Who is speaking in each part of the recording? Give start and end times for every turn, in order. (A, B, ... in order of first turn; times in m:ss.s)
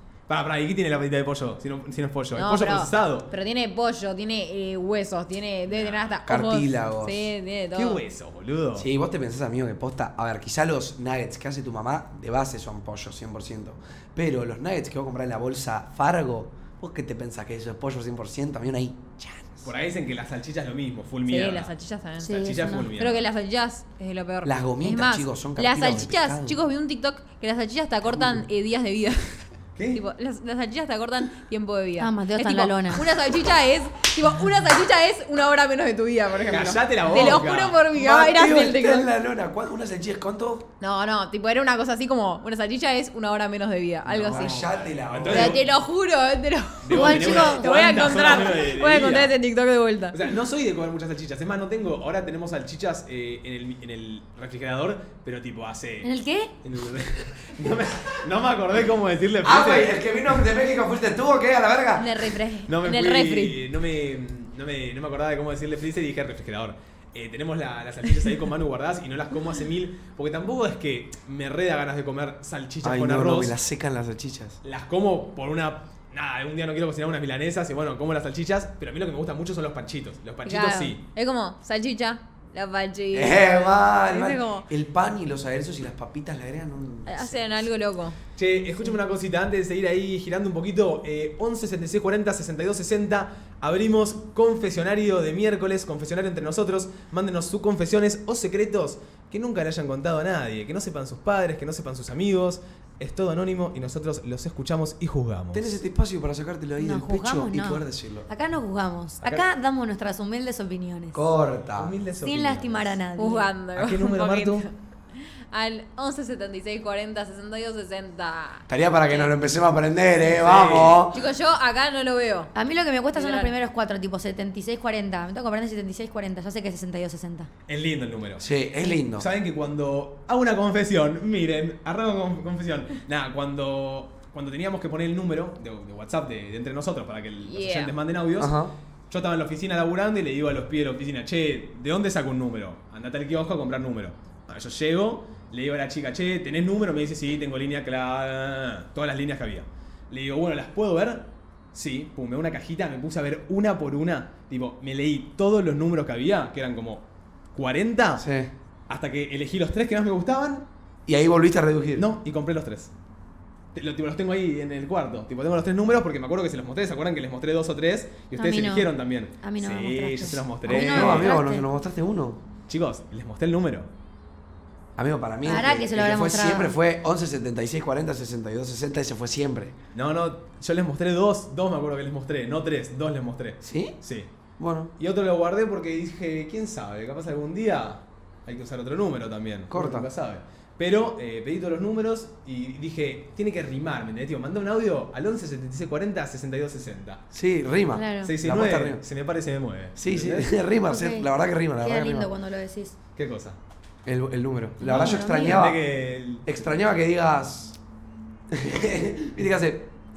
0:00.3-0:03.3 A
0:02.4-0:08.0 B
0:05.7-0:06.2 A
0:06.2-0:07.3 C
0:07.8-0:08.9 A
0:08.8-0:19.7 C
0:19.6-0:21.7 A
0:21.3-0:22.4 B
0:22.2-0:22.9 D
0:22.3-0:23.2 A
0:23.0-0:29.4 B
0:24.4-0:26.6 C
0:28.1-0:28.4 C
0:29.8-0:30.0 A
0:29.9-0:39.1 B
0:32.0-0:33.0 D
0:36.5-0:37.8 A
0:37.9-0:40.7 C
0:40.8-0:44.6 B
0:44.1-0:45.6 C
0:44.2-0:45.6 A
0:45.3-0:50.2 B
0:46.8-0:49.4 A
0:46.9-0:47.6 D
0:50.1-0:56.1 A
0:56.0-0:56.5 D
0:56.6-1:00.0 A
0:59.4-1:02.1 C
1:02.0-1:03.6 B
1:02.7-1:13.6 A
1:12.8-1:14.6 C
1:14.6-1:21.0 A
1:20.5-1:24.7 B
1:23.1-1:27.7 C
1:27.1-1:28.2 B
1:28.4-1:45.8 A
1:45.5-1:48.3 C
1:46.8-1:51.3 D
1:51.1-1:52.0 C
1:51.7-1:53.0 A
1:52.2-1:53.5 D
1:53.2-1:54.7 B
1:53.8-1:54.7 A
1:55.5-1:59.3 B
1:58.7-2:01.2 C
2:00.2-2:01.1 A
2:01.1-2:02.5 B
2:02.6-2:07.5 D
2:03.1-2:03.5 B
2:07.7-2:08.4 A
2:08.4-2:09.3 C
2:09.2-2:18.5 A
2:17.5-2:17.9 B
2:18.4-2:18.7 C
2:19.1-2:38.2 A
2:38.2-2:38.5 C
2:38.9-2:40.7 A
2:41.1-2:42.1 C
2:42.0-2:42.9 A
2:43.8-2:51.3 A
2:48.4-2:51.7 D
2:50.7-2:52.4 C
2:52.7-2:53.9 A
2:55.0-2:59.8 C
2:55.4-2:56.8 D
2:59.9-3:04.3 A
3:03.6-3:04.0 C
3:04.6-3:04.9 C
3:05.0-3:17.2 A
3:09.7-3:10.1 C
3:17.3-3:19.0 C
3:17.9-3:18.3 D
3:18.2-3:20.5 A
3:20.0-3:22.3 C
3:20.9-3:21.3 D
3:21.8-3:23.0 D
3:23.2-3:23.6 A
3:24.0-3:25.8 C
3:24.8-3:25.6 D
3:24.8-3:26.4 A
3:26.4-3:27.8 C
3:28.5-3:29.9 C